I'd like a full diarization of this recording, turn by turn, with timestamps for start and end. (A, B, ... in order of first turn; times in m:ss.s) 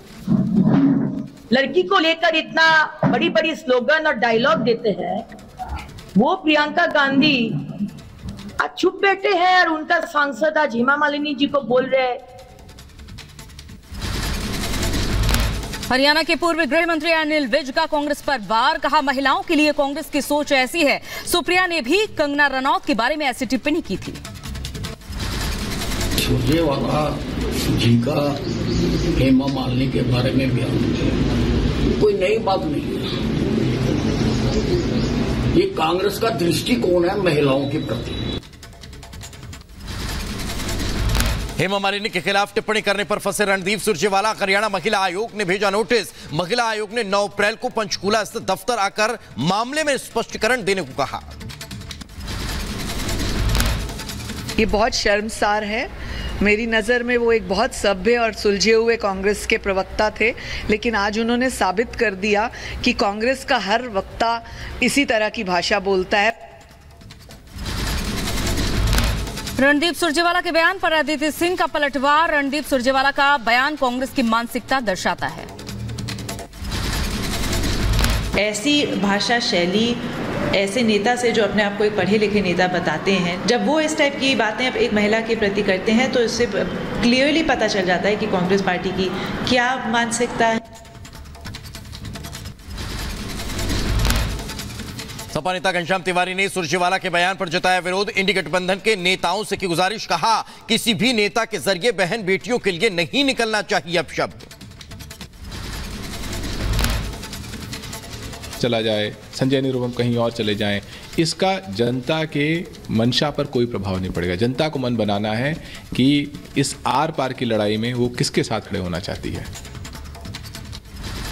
0:00.4-0:05.2 A
0:06.2-0:07.4 A
0:08.6-0:12.2 A
0:15.9-0:24.2 B
0:26.2-0:28.4 C
0:29.1-0:31.2 C
0:31.8-0:33.9 C
0:35.5-0:38.2 C
0:41.6-0:51.3 D
0:54.6-0:55.9 E
0:56.4-1:06.4 E
1:09.6-1:15.5 B
1:18.4-1:20.0 F
1:20.5-1:30.6 F
1:35.3-1:44.5 D
1:48.6-1:59.5 G